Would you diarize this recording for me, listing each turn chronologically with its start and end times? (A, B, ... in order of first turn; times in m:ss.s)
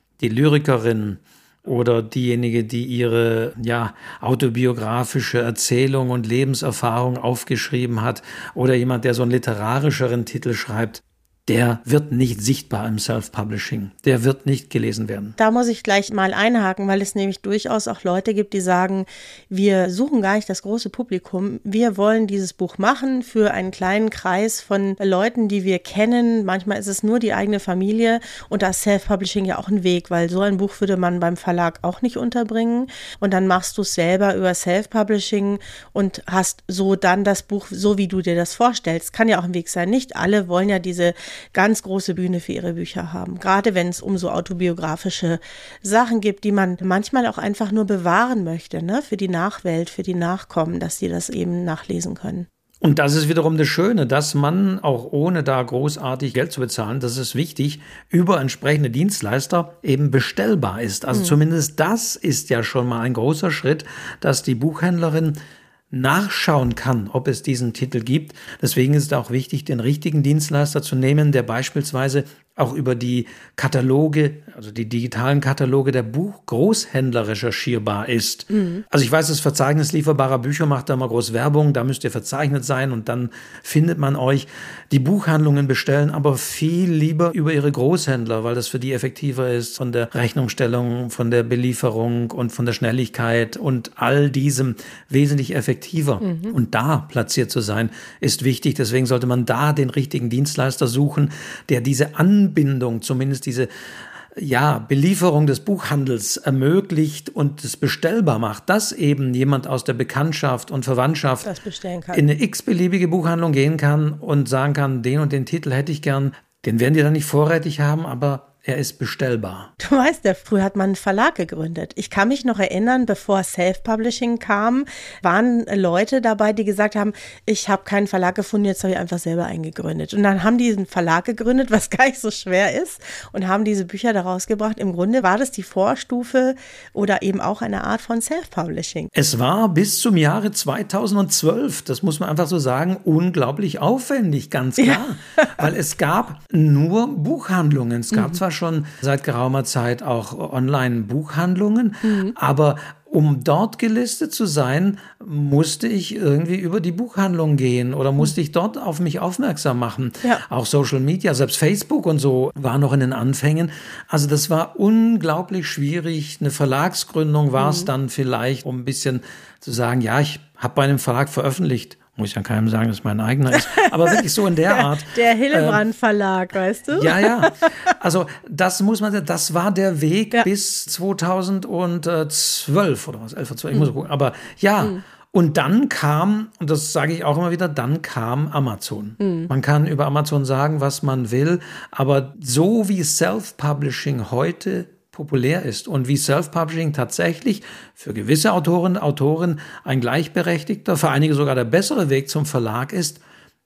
0:00.2-0:15.4 A
0:15.4-0:52.5 B
0:52.8-1:05.4 A
1:05.9-1:43.7 A
1:18.5-1:18.8 B
1:36.2-1:36.5 B
1:44.4-1:51.5 A
1:51.4-1:52.2 B
1:52.1-1:59.7 A
1:59.8-2:19.1 B
2:19.1-2:55.8 A
2:28.1-2:28.4 B
2:32.0-2:32.3 B
2:47.6-2:47.9 B
2:53.9-2:57.7 B
2:57.0-3:23.2 A
3:09.2-3:09.5 B